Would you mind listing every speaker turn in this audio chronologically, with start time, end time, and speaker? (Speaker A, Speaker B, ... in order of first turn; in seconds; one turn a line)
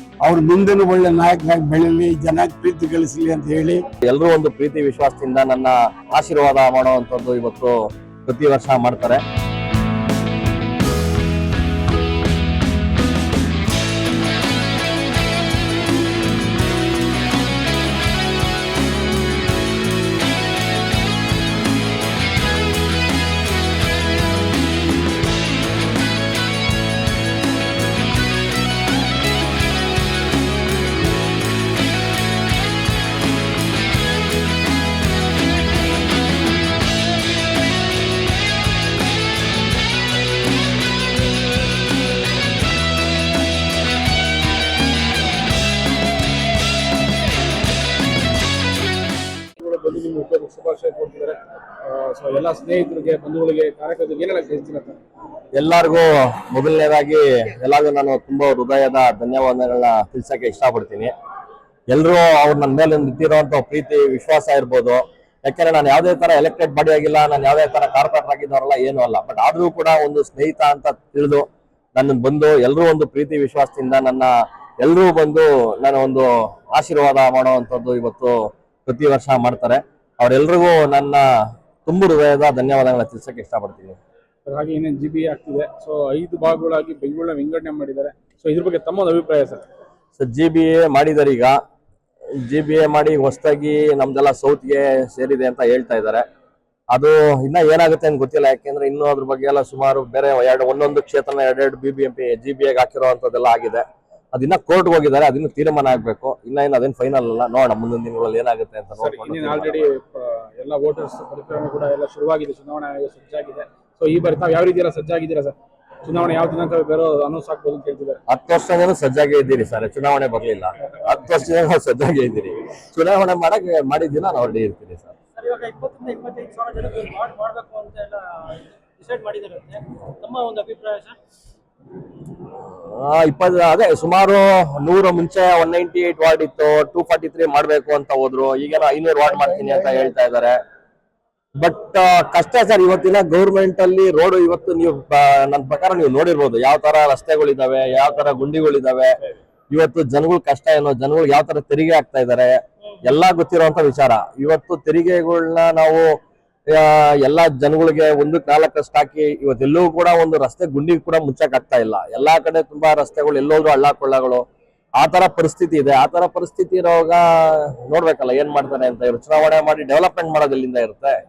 Speaker A: 0.2-3.8
Speaker B: 4.1-7.7
Speaker B: 8.3-9.2
Speaker C: 49.6-55.0
Speaker B: 55.5-61.1
Speaker B: 61.9-81.2
Speaker B: 81.9-84.0
Speaker C: 84.5-89.6
Speaker B: 90.2-91.6
Speaker B: 92.5-96.2
Speaker B: 96.9-109.8
Speaker C: 109.0-118.2
Speaker B: 118.3-125.1
Speaker D: 125.4-131.2
Speaker B: 132.9-140.6
Speaker B: 141.6-149.1
Speaker B: 149.7-152.5
Speaker B: 153.1-156.0
Speaker B: 156.7-164.4
Speaker B: 165.0-167.2
Speaker B: 167.9-171.2